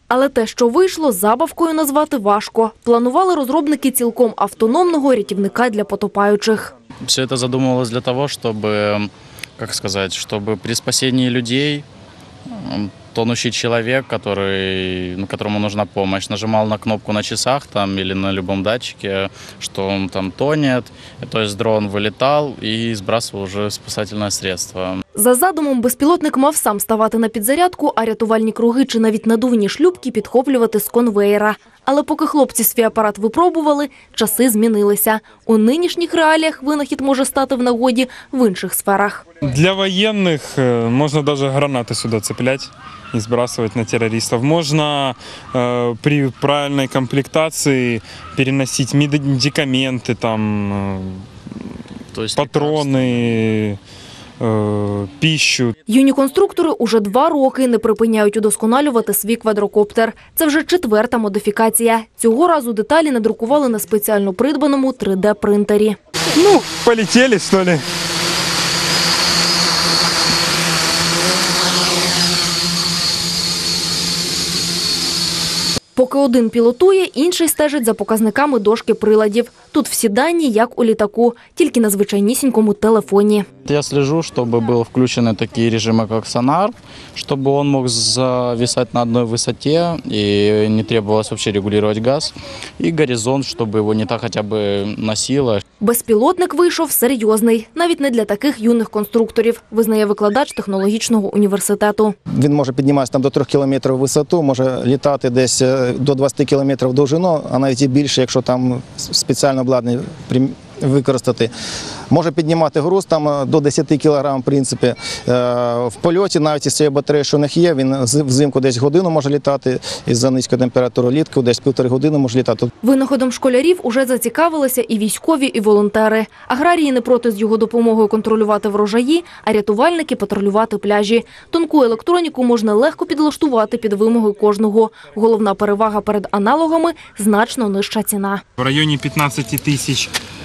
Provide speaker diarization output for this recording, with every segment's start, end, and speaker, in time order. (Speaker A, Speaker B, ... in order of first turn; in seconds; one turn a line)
Speaker A: 0.1-6.7
Speaker B: 7.0-11.8
Speaker B: 12.5-25.0
Speaker A: 25.1-39.2
Speaker C: 39.5-51.3
Speaker B: 52.1-53.4
Speaker C: 52.4-53.8
Speaker C: 54.4-55.8
Speaker A: 55.9-66.0
Speaker C: 66.3-67.8
Speaker A: 76.0-83.5
Speaker B: 83.7-95.6
Speaker A: 95.8-102.2
Speaker D: 102.3-111.5
Speaker D: 112.1-122.7
Speaker A: 122.8-138.4
Speaker C: 138.6-140.1